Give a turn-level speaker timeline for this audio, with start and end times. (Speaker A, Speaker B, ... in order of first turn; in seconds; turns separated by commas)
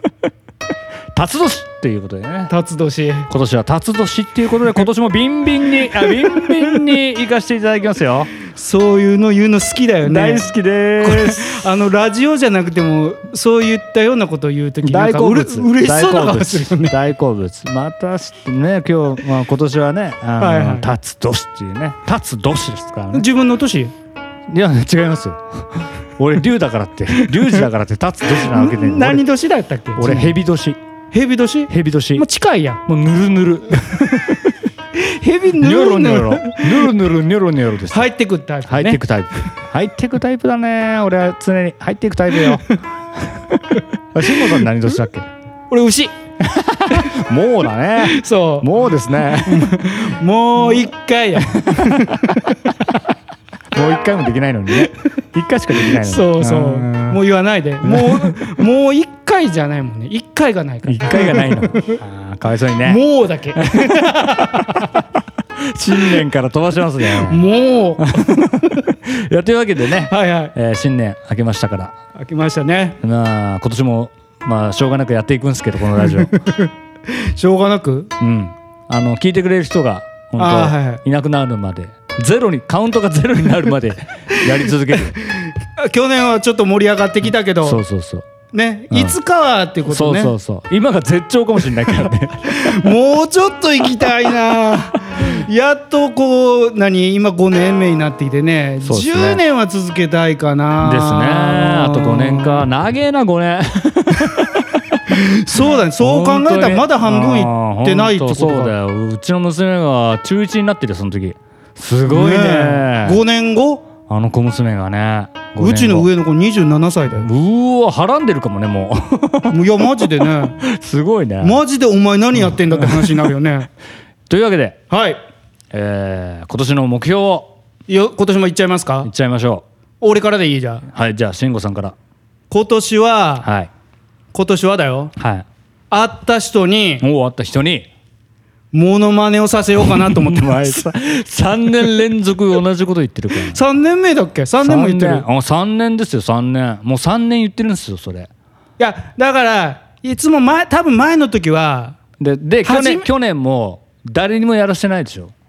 Speaker A: 1.1-2.5, Speaker B: 2.5-3.3, Speaker A: 3.3-8.3, Speaker B: 5.8-6.8, Speaker B: 8.4-16.9, Speaker A: 10.0-11.7, Speaker A: 14.8-23.2, Speaker B: 20.4-20.9, Speaker B: 23.1-23.9, Speaker A: 24.5-29.2, Speaker B: 27.2-27.6, Speaker B: 28.4-30.4, Speaker A: 29.9-30.8, Speaker B: 31.1-32.8, Speaker A: 31.7-32.2, Speaker A: 32.9-34.4, Speaker B: 34.9-36.9, Speaker A: 35.6-38.1, Speaker B: 37.9-39.0, Speaker A: 38.7-42.7, Speaker A: 44.1-45.3, Speaker B: 45.7-46.1, Speaker A: 46.4-49.8, Speaker B: 48.0-48.7, Speaker B: 49.3-52.7, Speaker A: 53.7-57.2, Speaker B: 55.8-62.0, Speaker A: 57.8-58.5, Speaker A: 60.9-63.0, Speaker B: 62.8-65.0, Speaker A: 63.7-64.6, Speaker A: 65.6-67.5, Speaker B: 67.2-68.5, Speaker A: 68.0-71.9, Speaker B: 70.0-70.5, Speaker B: 72.2-73.0, Speaker A: 73.0-76.3, Speaker B: 76.0-78.1, Speaker A: 78.2-85.1, Speaker B: 80.4-81.0, Speaker B: 84.3-87.8, Speaker A: 87.6-88.3, Speaker B: 88.5-90.3, Speaker A: 89.9-92.9, Speaker B: 92.5-102.7, Speaker A: 98.8-99.4, Speaker A: 100.8-104.7, Speaker B: 105.1-108.7, Speaker A: 105.6-113.2, Speaker B: 112.1-113.9, Speaker A: 114.1-116.1, Speaker B: 115.6-117.3, Speaker A: 117.1-119.6, Speaker B: 119.5-120.6, Speaker A: 120.6-121.6, Speaker B: 121.4-123.7, Speaker A: 122.4-123.3, Speaker A: 124.3-124.8, Speaker B: 124.9-125.2, Speaker A: 125.7-127.5, Speaker B: 127.9-129.1, Speaker A: 129.0-129.6, Speaker B: 130.0-130.9, Speaker A: 130.9-131.9, Speaker B: 132.5-133.5, Speaker A: 133.4-133.7, Speaker B: 134.3-135.1, Speaker A: 135.2-135.4, Speaker B: 135.9-137.0, Speaker A: 137.0-137.9, Speaker B: 138.7-140.9, Speaker A: 139.8-143.6, Speaker B: 143.4-145.2, Speaker A: 144.6-148.3, Speaker B: 148.8-152.0, Speaker A: 152.2-155.3, Speaker B: 152.6-153.1